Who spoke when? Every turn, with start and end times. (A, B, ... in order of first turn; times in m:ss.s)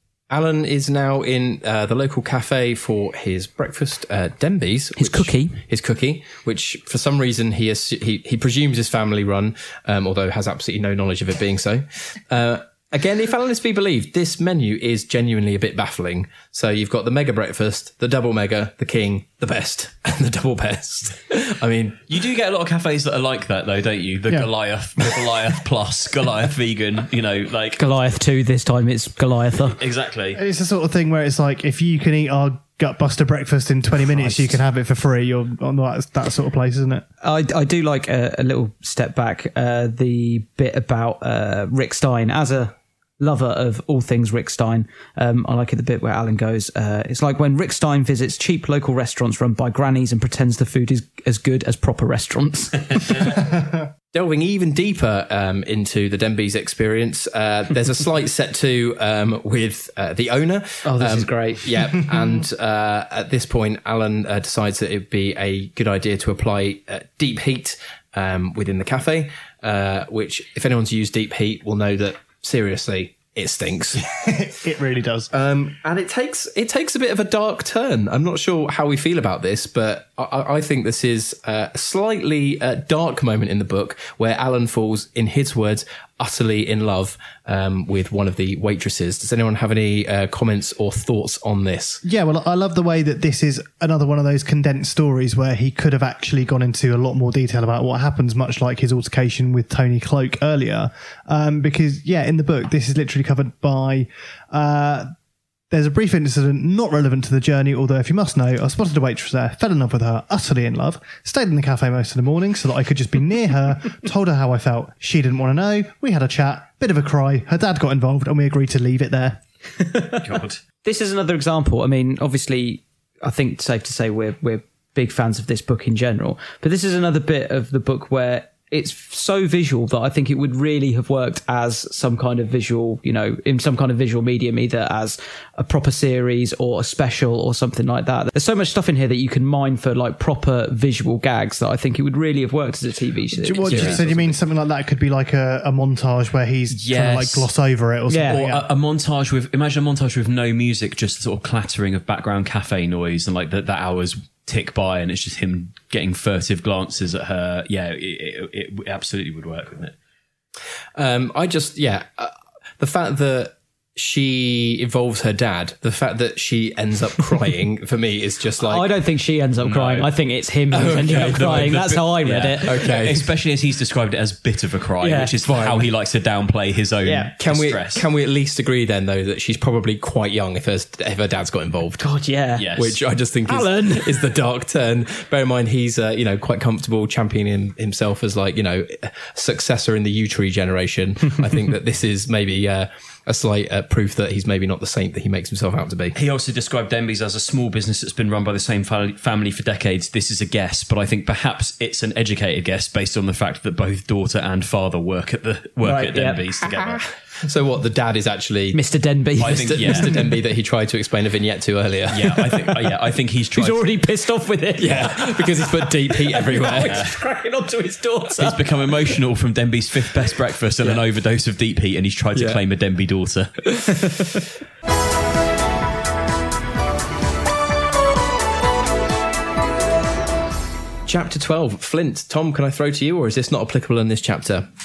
0:00.3-0:22.0 A
0:05.0-0:05.6 B
0:22.1-0:27.8 C
0:27.8-0:29.8 B
0:29.8-0:30.4 C
0:30.3-0:37.0 D
0:37.2-0:53.2 B
0:53.2-0:53.9 D
0:54.1-1:14.0 A
1:00.9-1:01.3 B
1:14.0-1:15.3 D
1:15.3-1:32.0 A
1:32.0-1:45.1 D
1:45.7-1:59.4 D
1:59.8-2:00.2 B
2:00.2-2:00.6 C
2:00.8-2:24.1 B
2:23.3-2:28.7 D
2:23.7-2:24.1 A
2:23.7-2:24.1 C
2:26.7-2:27.5 C
2:28.1-2:28.4 B
2:28.3-2:40.0 C
2:41.0-2:48.9 A
2:48.6-2:52.9 B
2:49.6-2:50.1 C
2:50.7-2:51.7 A
2:50.9-2:58.0 C
2:52.6-2:53.2 A
2:55.0-2:55.8 B
2:57.0-2:57.3 B
2:57.4-3:02.0 A
3:02.0-3:02.7 B
3:02.6-3:03.0 C
3:02.8-3:16.2 A
3:03.5-3:04.3 B
3:16.2-3:27.0 C
3:25.8-3:26.4 B
3:26.6-3:28.8 A
3:28.7-3:30.4 B
3:29.4-3:32.8 A
3:29.4-3:30.1 C
3:32.1-3:33.8 C
3:33.6-3:38.6 B
3:34.8-3:37.0 A
3:36.8-3:37.1 C
3:38.4-3:43.5 C
3:42.4-3:42.6 A
3:43.7-3:44.4 A
3:51.1-3:54.7 A